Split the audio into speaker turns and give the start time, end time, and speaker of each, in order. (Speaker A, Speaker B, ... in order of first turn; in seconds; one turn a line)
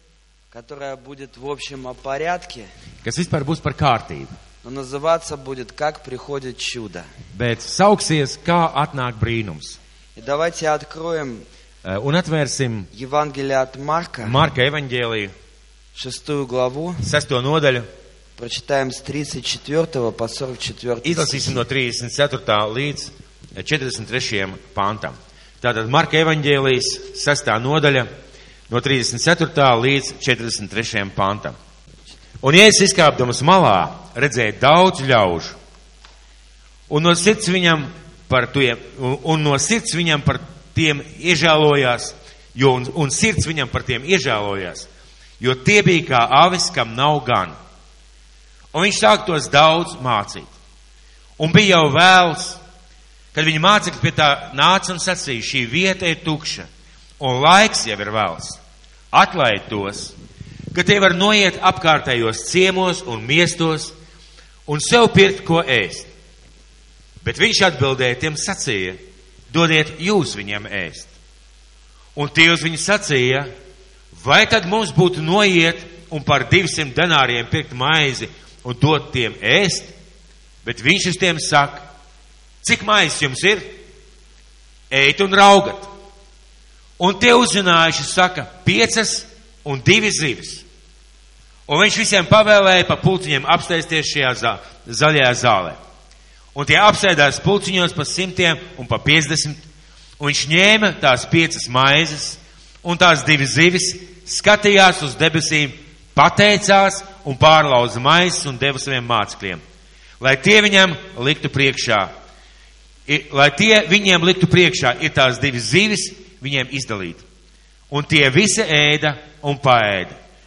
Speaker A: 0.5-2.7
Speaker B: 3.0-4.3
Speaker A: 4.6-7.1
Speaker B: 7.3-9.8
Speaker A: 10.2-11.5
Speaker B: 11.8-12.9
Speaker A: 12.9-14.4
Speaker B: 14.2-15.3
Speaker A: 15.9-17.0
Speaker B: 17.0-17.9
Speaker A: 18.4-21.6
Speaker B: 21.0-28.1
Speaker B: 28.7-31.6
Speaker B: 32.4-35.5
Speaker B: 36.9-44.9
Speaker B: 45.4-47.6
Speaker B: 48.7-50.5
Speaker B: 51.4-52.6
Speaker B: 53.3-56.7
Speaker B: 57.2-58.6
Speaker B: 59.1-60.1
Speaker B: 60.7-63.9
Speaker B: 64.7-66.1
Speaker B: 67.2-71.1
Speaker B: 72.2-73.5
Speaker B: 74.1-79.9
Speaker B: 80.6-81.9
Speaker B: 82.6-83.7
Speaker B: 84.9-85.9
Speaker B: 87.0-90.6
Speaker B: 91.7-95.8
Speaker B: 96.5-99.6
Speaker B: 100.2-109.6
Speaker B: 110.2-112.1
Speaker B: 113.1-117.2
Speaker B: 117.9-120.2